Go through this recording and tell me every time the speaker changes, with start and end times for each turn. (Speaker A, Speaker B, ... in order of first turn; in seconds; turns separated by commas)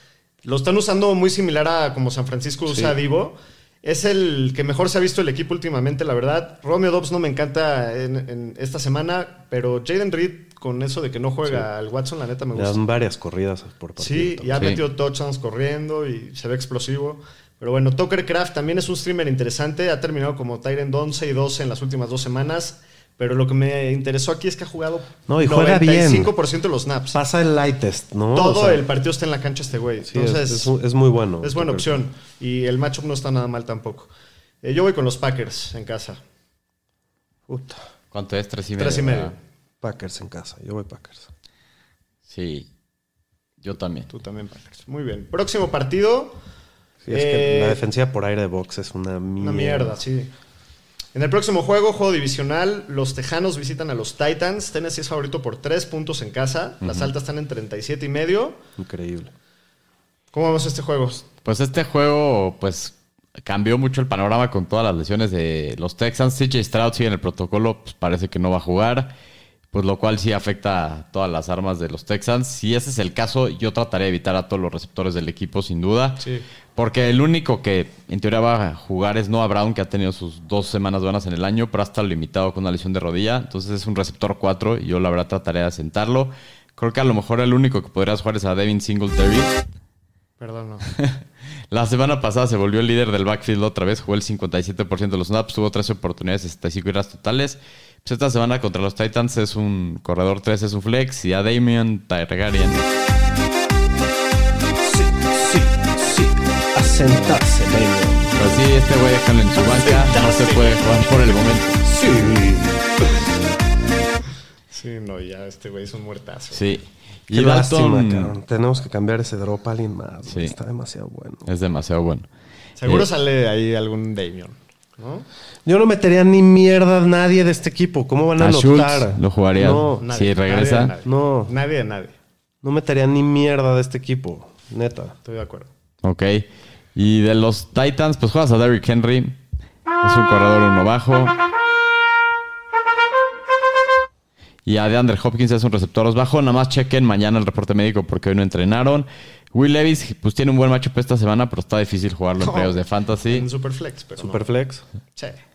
Speaker A: 0.4-12.8, Speaker B: 2.7-3.0, Speaker B: 12.5-14.7, Speaker A: 14.0-27.2, Speaker C: 14.5-14.8, Speaker B: 25.3-26.3, Speaker B: 27.1-28.8, Speaker A: 28.3-30.7, Speaker B: 30.0-32.0, Speaker A: 31.4-34.1, Speaker A: 34.6-36.2, Speaker B: 37.5-37.8, Speaker C: 38.1-39.3, Speaker A: 38.8-39.4, Speaker B: 39.8-41.3, Speaker C: 42.3-42.6, Speaker C: 43.6-44.1, Speaker A: 44.1-46.4, Speaker B: 47.0-50.0, Speaker A: 47.1-47.8, Speaker A: 49.4-50.3, Speaker A: 51.1-58.6, Speaker C: 56.8-57.1, Speaker B: 58.8-59.3, Speaker A: 60.3-61.2, Speaker C: 61.4-69.1, Speaker C: 69.7-76.2, Speaker A: 76.2-76.4, Speaker C: 76.8-89.5, Speaker A: 90.4-90.9, Speaker C: 90.9-102.8, Speaker B: 104.8-108.6, Speaker C: 108.3-111.8, Speaker A: 109.8-110.8, Speaker B: 111.8-112.8, Speaker A: 114.7-116.6, Speaker C: 116.5-118.3, Speaker B: 117.3-121.5, Speaker C: 120.3-120.5, Speaker C: 121.5-122.3, Speaker A: 122.8-125.3, Speaker B: 125.6-130.0, Speaker C: 128.4-130.9, Speaker A: 130.0-132.1, Speaker B: 131.0-131.5, Speaker B: 132.6-135.2, Speaker A: 135.2-135.7, Speaker C: 136.0-139.4, Speaker C: 140.0-141.3, Speaker C: 144.7-153.4, Speaker A: 152.4-154.5, Speaker B: 154.2-154.8